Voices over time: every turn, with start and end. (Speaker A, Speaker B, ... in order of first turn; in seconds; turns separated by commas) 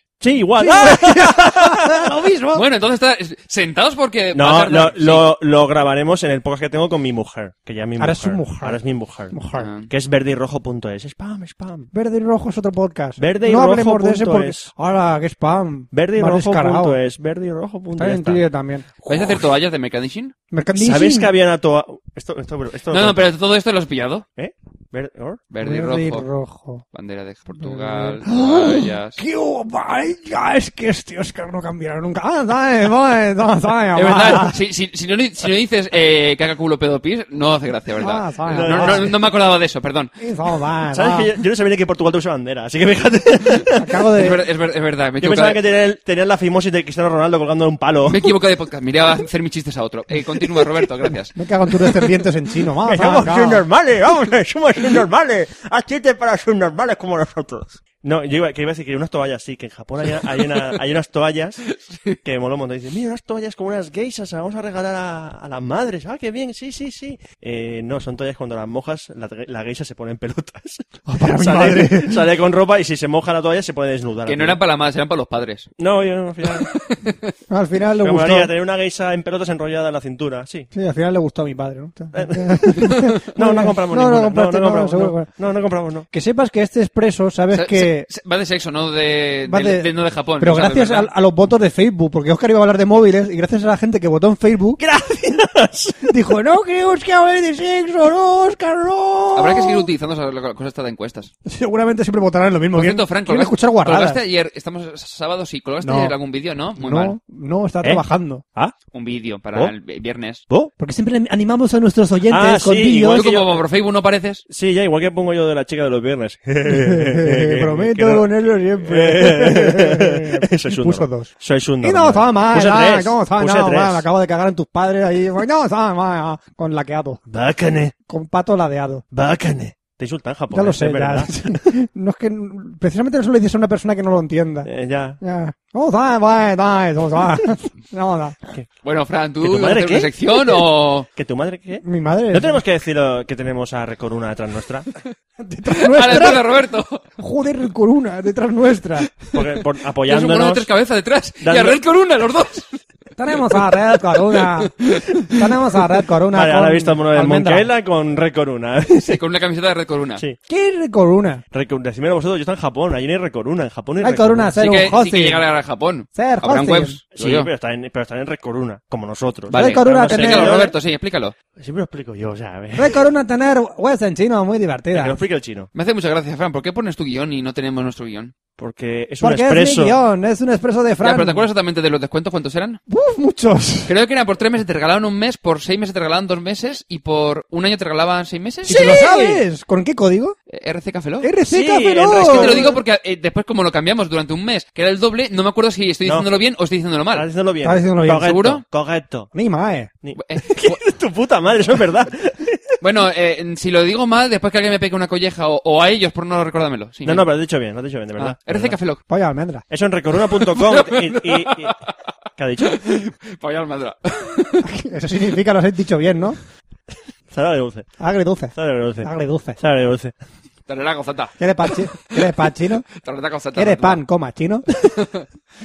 Speaker A: 0.2-2.1, Speaker B: 0.6-2.6, Speaker C: 2.5-5.3, Speaker A: 4.3-9.3, Speaker B: 8.0-8.8, Speaker B: 9.3-9.7, Speaker C: 9.6-9.9, Speaker A: 9.9-11.9, Speaker B: 11.9-17.0, Speaker A: 13.2-14.7, Speaker A: 15.9-18.4, Speaker B: 17.9-18.9, Speaker A: 19.1-19.5, Speaker C: 19.1-20.3, Speaker B: 20.5-21.3, Speaker A: 20.8-23.3, Speaker C: 22.9-24.3, Speaker A: 24.4-25.4, Speaker C: 25.5-26.3, Speaker B: 25.6-26.9, Speaker C: 26.9-29.2, Speaker B: 27.6-34.6, Speaker C: 34.0-40.1, Speaker B: 38.0-39.1, Speaker A: 38.5-39.1, Speaker B: 40.2-41.3, Speaker A: 40.9-44.0, Speaker B: 43.8-44.4, Speaker C: 44.2-45.6, Speaker A: 45.2-48.3, Speaker C: 48.1-51.4, Speaker B: 51.4-53.6, Speaker A: 52.9-61.6, Speaker C: 61.7-62.2, Speaker A: 62.2-74.6, Speaker B: 71.1-72.2, Speaker C: 74.3-75.7, Speaker A: 75.8-76.7, Speaker C: 76.5-77.3, Speaker B: 77.5-78.5, Speaker A: 78.0-80.7, Speaker B: 80.7-85.3, Speaker A: 82.2-86.1, Speaker B: 86.1-88.1, Speaker C: 87.5-91.1, Speaker B: 89.5-94.8, Speaker A: 94.8-96.2, Speaker B: 96.1-99.9, Speaker C: 99.3-101.3, Speaker B: 101.5-104.2, Speaker C: 102.8-107.2, Speaker B: 105.8-106.2, Speaker B: 106.8-108.4, Speaker C: 108.9-110.4, Speaker B: 110.8-113.3, Speaker A: 112.3-113.6, Speaker C: 113.1-114.4, Speaker A: 114.5-118.3, Speaker B: 116.7-127.2, Speaker A: 118.8-124.1, Speaker A: 127.3-128.0, Speaker B: 128.1-129.0, Speaker A: 129.1-131.6, Speaker B: 130.5-134.7, Speaker A: 134.7-135.2, Speaker B: 135.2-138.4, Speaker C: 138.8-141.1, Speaker A: 139.4-140.4, Speaker A: 141.1-144.9, Speaker B: 141.8-142.6, Speaker B: 145.4-146.5, Speaker C: 145.7-147.0, Speaker B: 147.2-149.2, Speaker A: 149.3-150.7, Speaker C: 149.3-152.8, Speaker A: 151.4-151.8, Speaker B: 153.2-154.8, Speaker B: 155.3-157.7, Speaker A: 156.3-159.2, Speaker C: 159.0-160.2, Speaker B: 160.5-161.4, Speaker A: 161.5-164.5, Speaker B: 164.0-165.4, Speaker C: 164.6-167.5, Speaker B: 166.2-167.0, Speaker A: 167.2-170.8, Speaker B: 169.5-170.7, Speaker C: 169.5-171.3, Speaker A: 171.6-173.0, Speaker B: 172.8-175.2, Speaker A: 174.9-175.7, Speaker C: 175.8-178.3, Speaker A: 178.6-180.0, Speaker B: 179.2-181.5, Speaker C: 181.0-182.8, Speaker B: 182.9-183.9, Speaker C: 183.9-189.0, Speaker A: 188.7-189.4, Speaker B: 188.7-190.4, Speaker C: 190.5-191.3, Speaker B: 191.2-192.7, Speaker A: 191.5-192.8, Speaker C: 192.2-197.3, Speaker A: 197.1-199.3, Speaker B: 197.6-198.4, Speaker C: 198.2-198.6, Speaker B: 199.3-199.9, Speaker A: 200.0-202.7, Speaker C: 200.2-200.8, Speaker C: 202.8-207.3, Speaker A: 207.0-208.8, Speaker C: 208.2-209.0, Speaker B: 209.1-209.7, Speaker A: 209.7-211.8, Speaker C: 210.3-211.9, Speaker A: 212.4-212.8, Speaker C: 212.7-214.7, Speaker B: 214.6-216.4, Speaker A: 217.3-217.9, Speaker B: 218.0-219.6, Speaker A: 218.6-220.2, Speaker C: 220.7-222.2, Speaker B: 221.4-222.9, Speaker C: 223.0-224.0, Speaker B: 223.5-224.7, Speaker C: 224.8-225.2